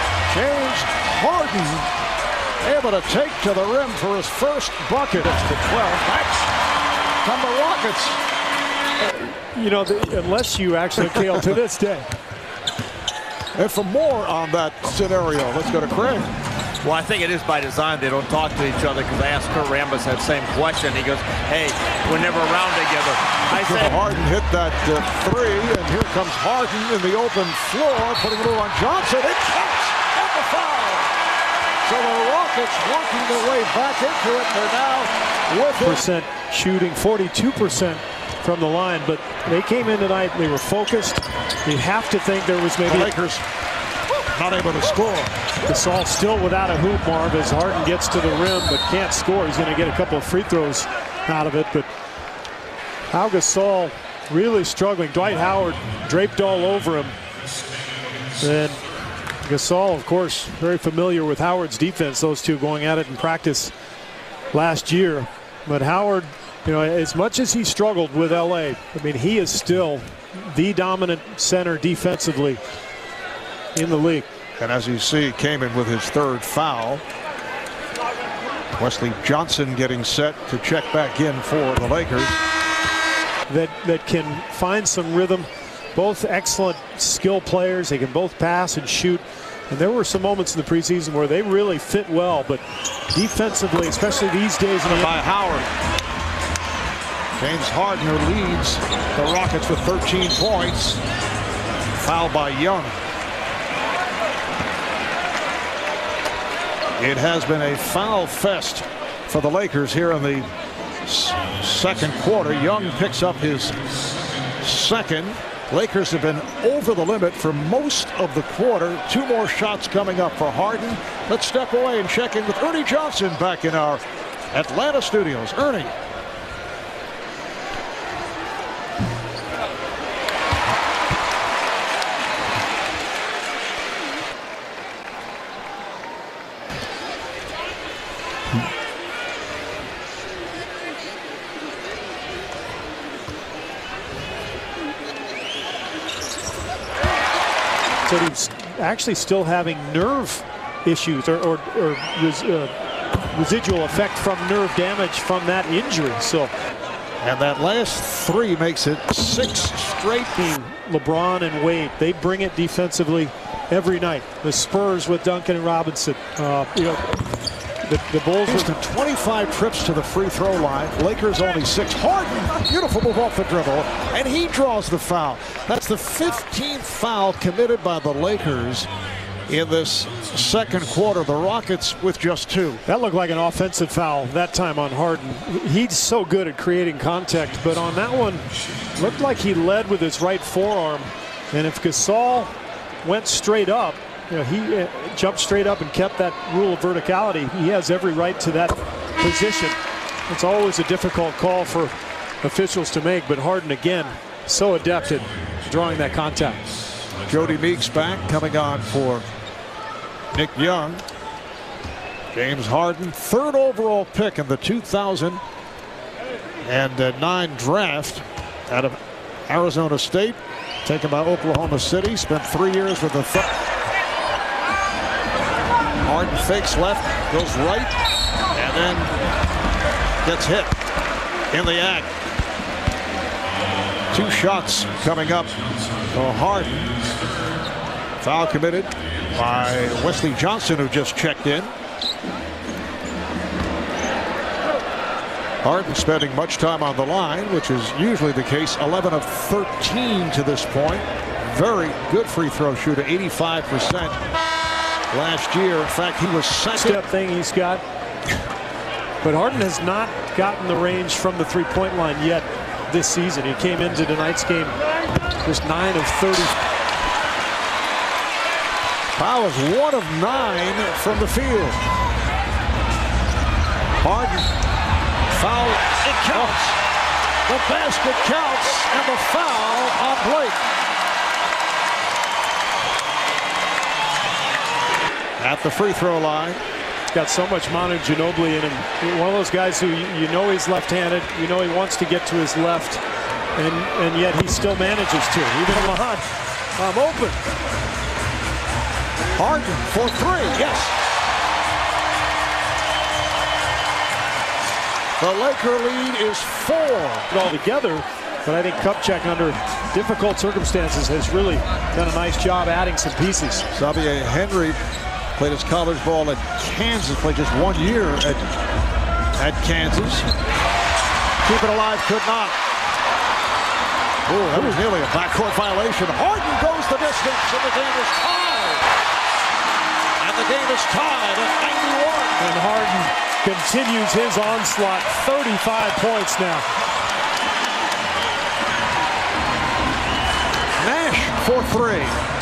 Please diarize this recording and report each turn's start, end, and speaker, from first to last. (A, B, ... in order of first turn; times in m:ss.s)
0:00.3-0:01.9 A
0:02.6-0:06.5 A
0:07.2-0:08.2 A
0:09.0-0:12.1 B
0:13.6-0:16.3 A
0:16.8-0:23.9 C
0:23.5-0:31.1 A
0:31.8-0:36.0 A
0:35.8-0:43.1 B
0:42.9-0:43.4 A
0:44.3-0:45.3 A
0:45.7-0:51.9 B
0:53.1-0:57.2 B
0:58.4-0:58.8 B
0:59.4-1:03.7 B
1:04.5-1:12.6 B
1:13.8-1:14.3 B
1:14.6-1:17.0 A
1:18.7-1:22.4 A
1:23.5-1:35.2 B
1:34.9-1:35.7 A
1:37.4-1:41.0 A
1:42.0-1:42.9 A
1:47.0-1:50.5 A
1:51.0-1:53.8 A
1:54.6-2:06.0 A
2:28.1-2:32.8 B
2:33.3-2:36.5 B
2:37.2-2:40.5 A
2:40.4-2:48.7 B
2:48.5-2:58.9 A
2:59.5-3:02.8 A
3:02.9-3:08.4 B
3:09.0-3:12.5 B
3:13.0-3:19.8 B
3:20.3-3:26.7 B
3:27.3-3:29.3 A
3:30.3-3:31.0 A
3:32.3-3:35.4 A
3:36.6-3:43.5 A
3:46.0-3:48.0 A
3:48.5-3:49.1 A
3:50.2-3:50.8 A
3:51.5-3:52.1 A
3:54.1-3:55.5 A
3:56.1-3:56.9 A
3:58.2-4:01.7 A
4:05.6-4:14.2 A
4:15.1-4:17.0 A
4:16.7-4:17.8 B
4:19.2-4:24.8 B
4:25.4-4:26.6 B
4:29.2-4:31.8 A
4:34.0-4:34.5 A
4:35.3-4:36.8 A
4:37.5-4:40.6 A
4:45.4-4:46.6 A
4:47.1-4:53.0 B
4:53.6-4:56.2 B
4:56.8-4:57.4 B
4:59.4-5:01.0 A
5:05.2-5:07.3 A
5:07.3-5:13.7 B
5:13.7-5:14.8 A
5:15.4-5:18.4 A
5:19.4-5:20.3 A
5:21.4-5:22.6 A
5:24.3-5:28.8 A
5:24.5-5:24.8 B
5:30.2-5:32.4 A
5:32.4-5:36.6 B
5:40.8-5:42.2 A